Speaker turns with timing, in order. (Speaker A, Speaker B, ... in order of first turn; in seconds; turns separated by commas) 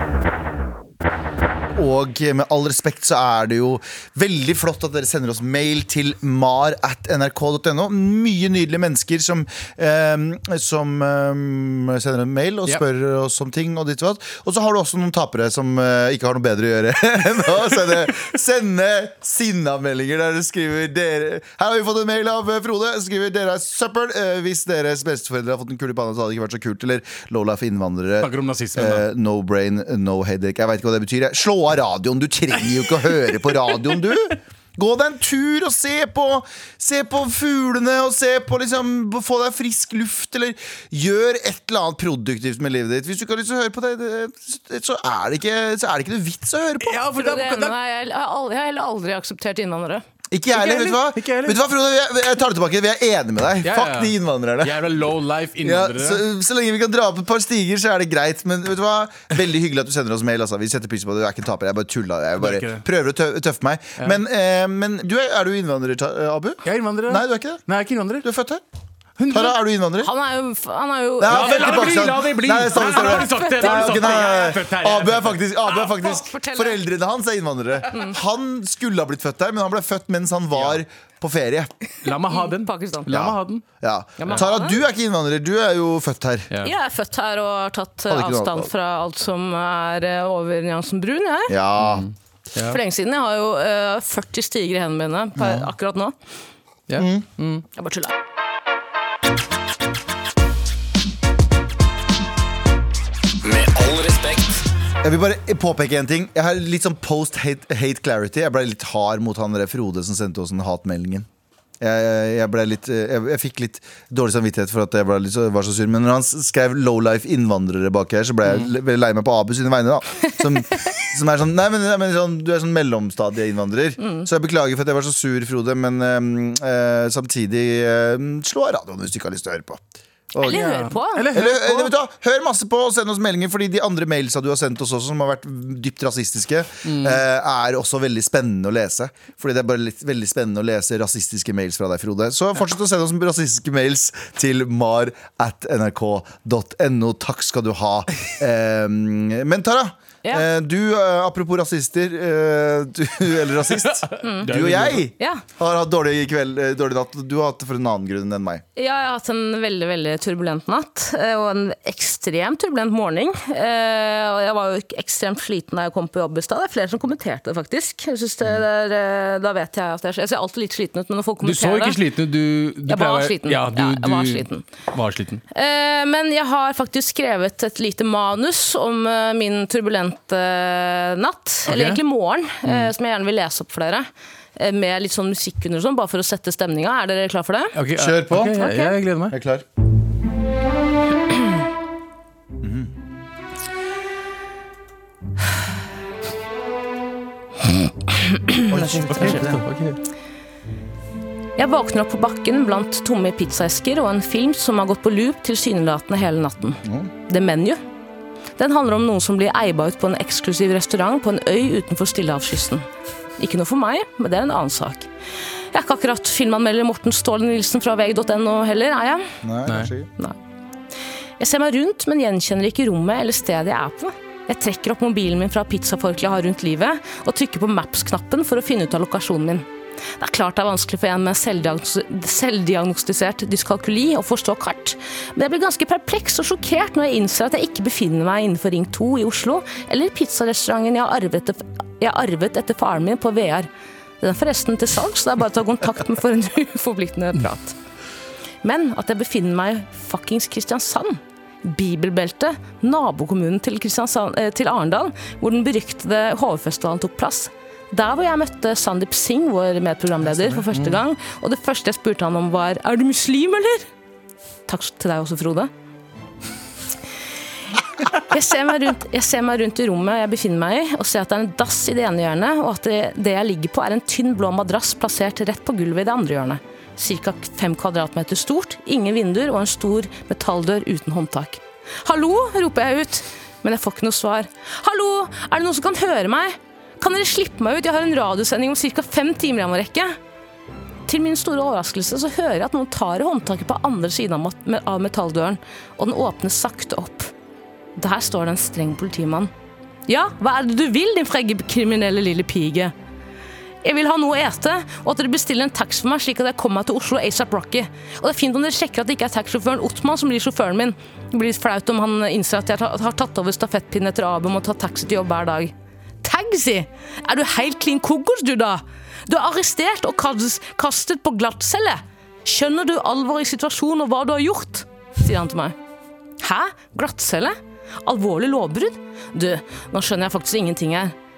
Speaker A: 1.8-47.0, Speaker B: 28.2-29.0, Speaker B: 46.8-47.7, Speaker C: 47.1-50.0, Speaker A: 50.3-54.8, Speaker B: 50.5-51.6, Speaker B: 53.6-56.2, Speaker A: 55.6-67.6, Speaker B: 62.4-62.8, Speaker B: 66.7-68.3, Speaker A: 68.2-68.6, Speaker B: 69.2-69.6, Speaker A: 69.3-70.1, Speaker C: 70.0-72.1, Speaker A: 71.2-81.7, Speaker B: 71.3-75.4, Speaker C: 72.8-74.5, Speaker C: 75.7-76.8, Speaker B: 80.5-80.8, Speaker B: 82.0-83.7, Speaker C: 82.3-83.1, Speaker A: 83.1-86.5, Speaker C: 84.2-84.8, Speaker C: 86.6-91.6, Speaker A: 88.1-88.7, Speaker A: 91.5-92.1, Speaker B: 91.8-92.8, Speaker C: 92.7-96.1, Speaker A: 95.4-95.6, Speaker B: 96.9-97.6, Speaker A: 97.0-97.2, Speaker C: 97.8-98.1, Speaker A: 105.0-111.3, Speaker A: 111.8-129.8, Speaker C: 124.0-124.3, Speaker A: 130.3-158.6, Speaker C: 130.4-131.3, Speaker B: 130.5-131.9, Speaker B: 136.8-137.2, Speaker B: 154.0-155.1, Speaker C: 154.2-154.5, Speaker C: 158.8-172.0, Speaker B: 171.4-175.4, Speaker C: 172.9-174.7, Speaker C: 175.5-187.8, Speaker B: 181.7-182.0, Speaker B: 187.8-189.3, Speaker A: 187.9-188.6, Speaker C: 188.6-188.9, Speaker A: 189.3-189.7, Speaker A: 192.6-192.9, Speaker A: 198.7-199.7, Speaker B: 198.7-200.0, Speaker C: 201.6-207.8, Speaker C: 208.6-212.8, Speaker C: 213.4-215.1, Speaker C: 215.7-219.3, Speaker A: 219.4-220.1, Speaker C: 221.4-229.7, Speaker C: 230.2-243.7, Speaker C: 244.2-247.8, Speaker C: 248.6-263.9, Speaker B: 260.3-261.0, Speaker C: 264.7-265.7, Speaker C: 268.1-290.2, Speaker C: 291.1-297.3, Speaker C: 298.0-299.5, Speaker C: 300.1-302.9, Speaker C: 303.8-325.8, Speaker C: 326.4-331.1